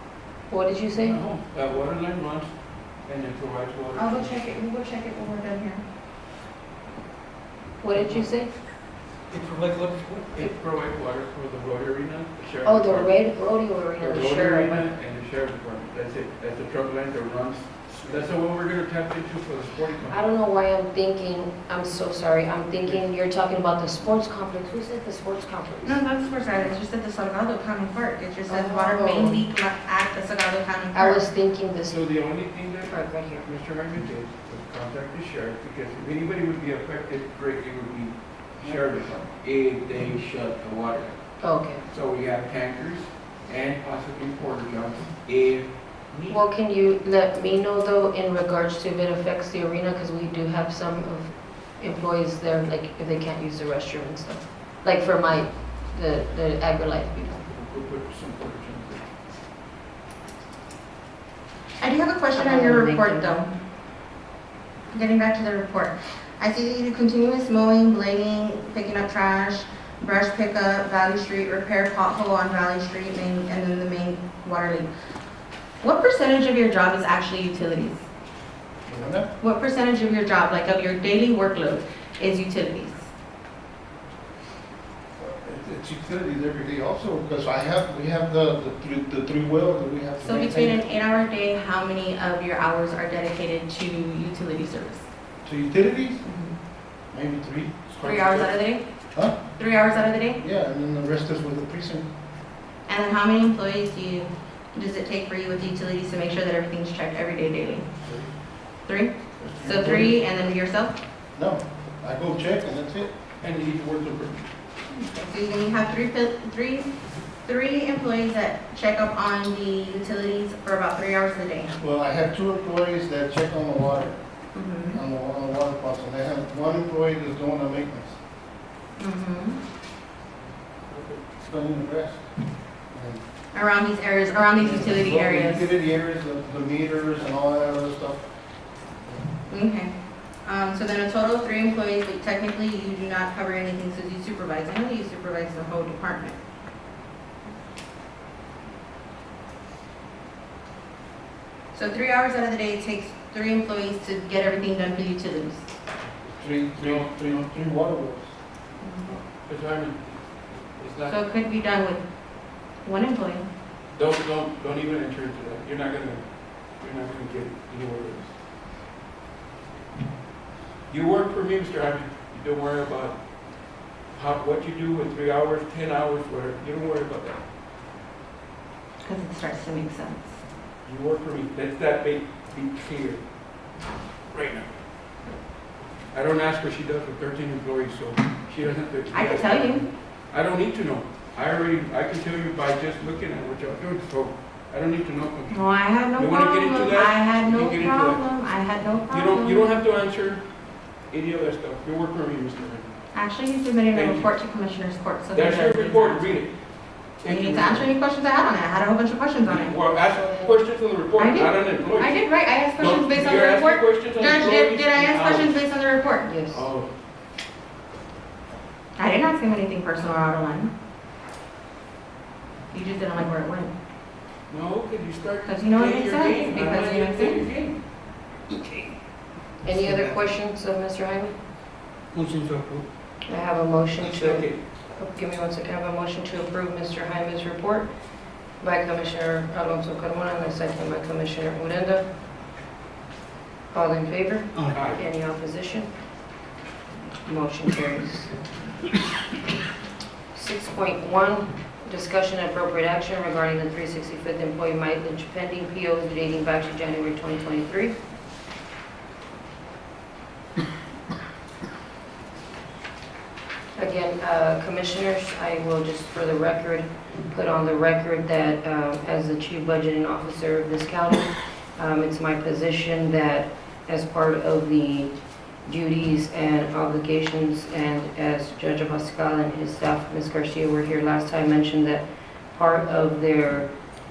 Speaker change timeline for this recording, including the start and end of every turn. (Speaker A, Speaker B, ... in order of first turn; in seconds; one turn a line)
Speaker A: 0.5-1.2
Speaker B: 0.9-2.5
Speaker B: 3.0-4.4
Speaker C: 3.9-5.8
Speaker A: 7.8-8.5
Speaker D: 9.3-10.5
Speaker B: 10.3-13.2
Speaker A: 12.6-14.9
Speaker B: 14.0-20.2
Speaker A: 20.1-26.0
Speaker C: 25.8-31.2
Speaker A: 28.5-29.4
Speaker A: 30.9-32.0
Speaker B: 31.8-41.2
Speaker A: 32.9-33.5
Speaker A: 41.4-41.8
Speaker B: 41.9-46.4
Speaker A: 46.3-57.4
Speaker B: 57.4-59.0
Speaker C: 61.8-63.5
Speaker A: 62.3-63.2
Speaker C: 64.9-74.9
Speaker C: 75.8-78.0
Speaker E: 78.8-79.3
Speaker C: 79.4-83.1
Speaker E: 85.2-90.8
Speaker C: 90.2-95.0
Speaker E: 95.4-96.2
Speaker C: 96.2-96.5
Speaker E: 97.1-98.5
Speaker C: 98.0-98.8
Speaker C: 99.5-100.4
Speaker E: 100.4-102.1
Speaker C: 102.9-107.9
Speaker B: 108.0-108.3
Speaker C: 108.8-111.0
Speaker E: 109.5-109.9
Speaker B: 109.5-110.0
Speaker E: 111.3-113.1
Speaker B: 113.4-114.5
Speaker C: 114.9-116.9
Speaker C: 117.5-121.7
Speaker E: 121.8-124.2
Speaker C: 124.5-125.0
Speaker E: 124.9-128.2
Speaker C: 129.0-129.6
Speaker B: 130.9-131.2
Speaker E: 131.4-132.2
Speaker E: 132.9-133.2
Speaker C: 133.5-135.7
Speaker E: 134.6-138.2
Speaker C: 139.5-139.9
Speaker C: 140.4-146.4
Speaker C: 151.7-155.6
Speaker E: 156.4-158.3
Speaker B: 156.7-157.6
Speaker C: 158.8-159.2
Speaker B: 159.4-161.2
Speaker C: 161.1-162.0
Speaker C: 162.8-163.4
Speaker B: 163.9-166.2
Speaker B: 166.8-168.3
Speaker B: 170.9-173.1
Speaker B: 174.1-177.4
Speaker C: 179.0-180.3
Speaker B: 180.8-183.2
Speaker B: 184.3-184.7
Speaker B: 186.1-198.2
Speaker C: 189.1-189.8
Speaker C: 195.5-199.8
Speaker B: 199.1-200.4
Speaker B: 201.1-202.9
Speaker C: 203.1-206.4
Speaker B: 203.9-204.3
Speaker B: 205.3-206.5
Speaker B: 207.2-207.9
Speaker C: 207.2-209.8
Speaker B: 209.4-212.2
Speaker C: 211.2-216.3
Speaker B: 212.7-215.6
Speaker A: 216.2-216.7
Speaker B: 216.5-216.9
Speaker C: 219.0-220.7
Speaker C: 222.7-223.7
Speaker B: 224.5-227.8
Speaker C: 225.4-227.4
Speaker A: 229.6-231.3
Speaker D: 229.7-230.2
Speaker D: 232.1-232.8
Speaker A: 233.3-237.9
Speaker B: 234.0-234.6
Speaker A: 238.6-242.0
Speaker A: 243.7-245.9
Speaker D: 244.5-244.8
Speaker B: 244.7-245.0
Speaker A: 247.2-248.3
Speaker A: 250.3-257.9
Speaker A: 263.8-275.1
Speaker A: 275.6-283.7